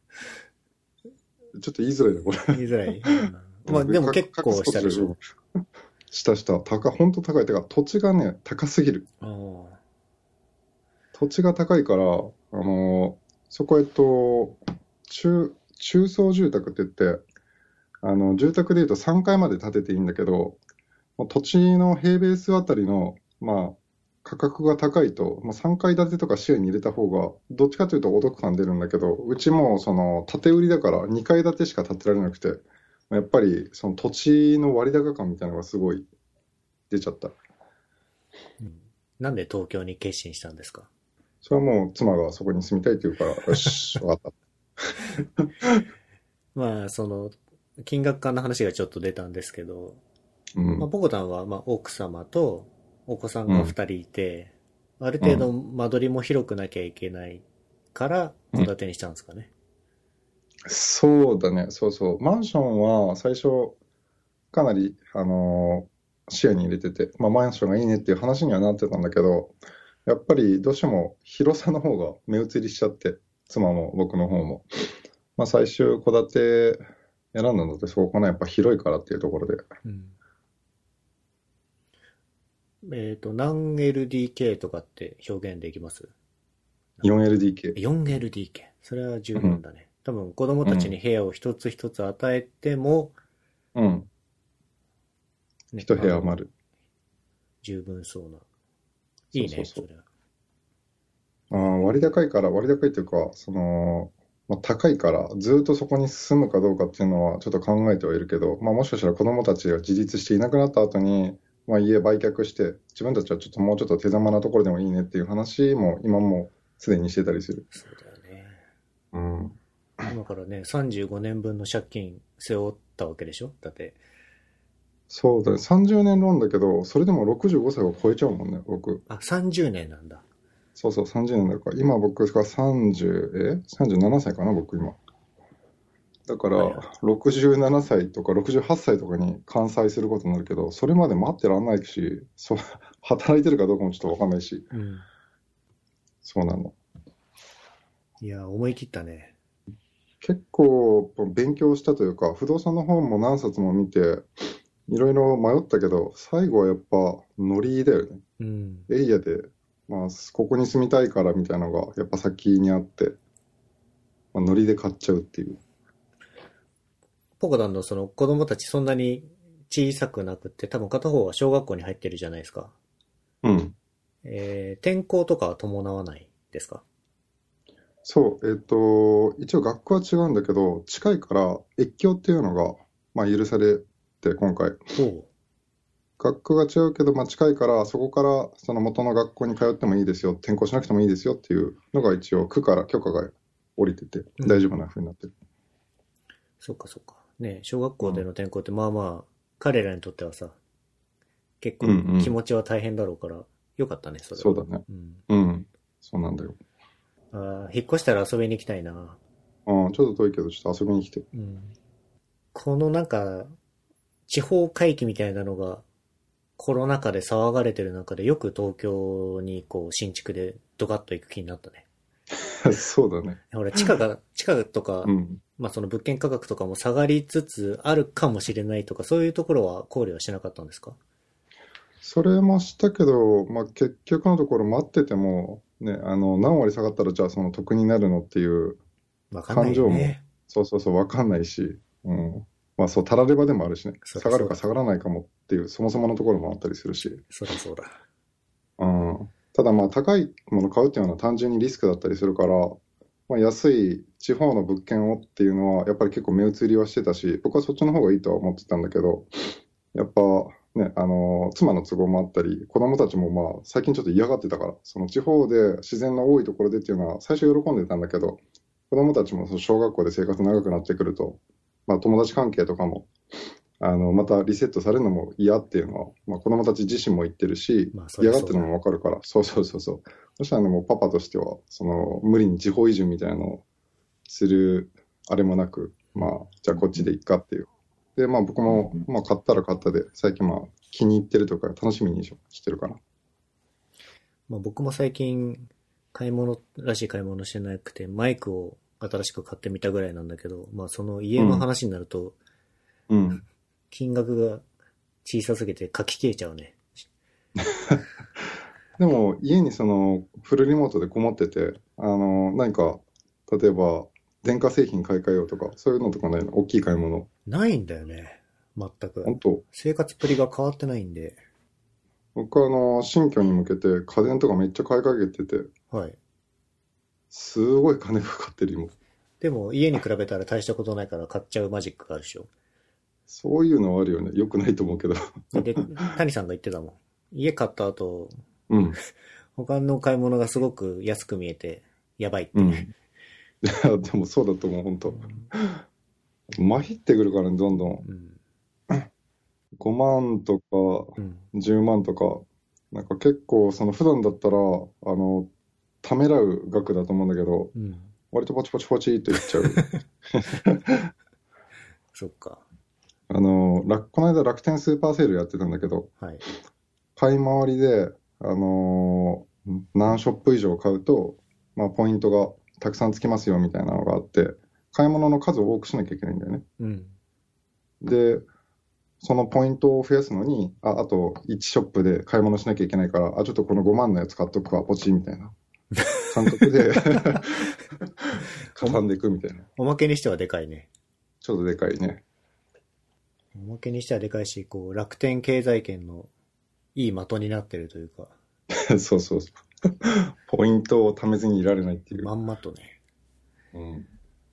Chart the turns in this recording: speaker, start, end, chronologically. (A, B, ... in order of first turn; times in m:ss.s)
0:01.6-0:05.2 A
0:02.5-0:05.1 B
0:06.1-0:09.1 A
0:09.2-0:09.8 B
0:11.2-0:17.2 A
0:18.0-0:20.6 A
0:21.2-0:36.1 A
0:36.9-0:37.4 A
0:38.6-0:40.9 B
0:41.4-0:44.3 A
0:44.8-0:45.8 A
0:46.6-0:50.0 B
0:50.6-0:50.9 A
0:50.8-0:59.5 B
0:53.5-0:53.7 A
0:55.2-0:55.5 A
1:00.7-1:03.8 A
1:04.5-1:09.5 A
1:10.1-1:14.7 A
1:15.4-1:19.6 A
1:19.8-1:20.2 B
1:22.8-1:26.1 B
1:27.0-1:27.8 A
1:27.8-1:33.2 B
1:29.4-1:29.6 A
1:30.6-1:31.0 A
1:33.8-1:34.1 A
1:35.7-1:36.3 B
1:35.8-1:36.5 A
1:37.6-1:38.5 B
1:39.3-1:39.8 A
1:39.3-1:40.0 B
1:41.5-1:57.7 A
1:41.5-1:41.9 B
1:57.7-1:58.6 B
1:59.1-1:59.6 A
2:00.1-2:04.0 B
2:05.1-2:09.0 A
2:09.1-2:10.2 B
2:10.8-2:15.0 A
2:16.3-2:24.7 A
2:16.6-2:16.9 B
2:24.7-2:25.1 B
2:26.2-2:26.8 A
2:28.2-2:29.4 B
2:30.2-2:38.2 A
2:38.4-2:38.9 B
2:38.9-2:43.2 A
2:44.3-2:45.6 A
2:47.4-2:52.8 B
2:53.4-2:53.8 A
2:54.2-2:56.8 B
2:58.0-3:04.8 A
3:05.0-3:05.3 B
3:06.2-3:15.3 A
3:14.4-3:14.7 B
3:16.6-3:20.6 B
3:21.6-3:25.2 B
3:21.8-3:22.4 A
3:24.4-3:26.6 A
3:27.3-3:29.2 B
3:29.7-3:31.3 A
3:31.3-3:31.8 B
3:32.5-3:33.5 B
3:34.3-3:35.8 B
3:36.6-3:41.9 B
3:42.4-3:43.9 A
3:43.5-3:51.0 B
3:45.0-3:45.4 A
3:52.0-3:58.8 A
3:59.3-4:00.2 B
3:59.5-4:07.2 A
4:04.0-4:04.6 B
4:07.3-4:08.0 B
4:08.8-4:12.8 A
4:13.3-4:33.1 A
4:33.8-4:43.6 A
4:37.9-4:38.7 B
4:44.3-4:53.0 A
4:54.5-5:02.4 B
5:01.4-5:01.7 A
5:03.1-5:03.4 A
5:03.9-5:04.6 B
5:05.2-5:06.9 B
5:07.6-5:08.0 A
5:09.0-5:17.3 A
5:17.5-5:21.4 B
5:19.2-5:19.6 A
5:22.4-5:25.7 A
5:25.9-5:26.2 B
5:27.3-5:28.9 A
5:29.4-5:32.5 B
5:33.3-5:35.9 A
5:35.5-5:38.4 B
5:38.7-5:39.0 A
5:39.6-5:42.9 B
5:42.6-5:42.9 A
5:43.6-5:45.8 A
5:45.1-5:45.5 B
5:46.6-5:48.0 A
5:48.0-5:48.4 B
5:49.8-5:55.5 A
5:51.2-5:51.5 B
5:56.0-5:57.7 A
5:57.8-5:58.1 B
5:58.3-6:01.1 A
5:59.7-6:00.0 B
6:02.2-6:02.6 B
6:03.3-6:06.1 A
6:07.2-6:16.6 A
6:16.8-6:17.2 B
6:18.0-6:18.4 A
6:19.2-6:25.6 A
6:26.0-6:27.4 B
6:26.3-6:29.7 A
6:29.8-6:30.9 B
6:31.4-6:32.2 A
6:33.5-6:36.3 B
6:37.0-6:38.4 B
6:38.7-6:42.3 A
6:42.1-6:43.0 B
6:43.7-6:44.1 A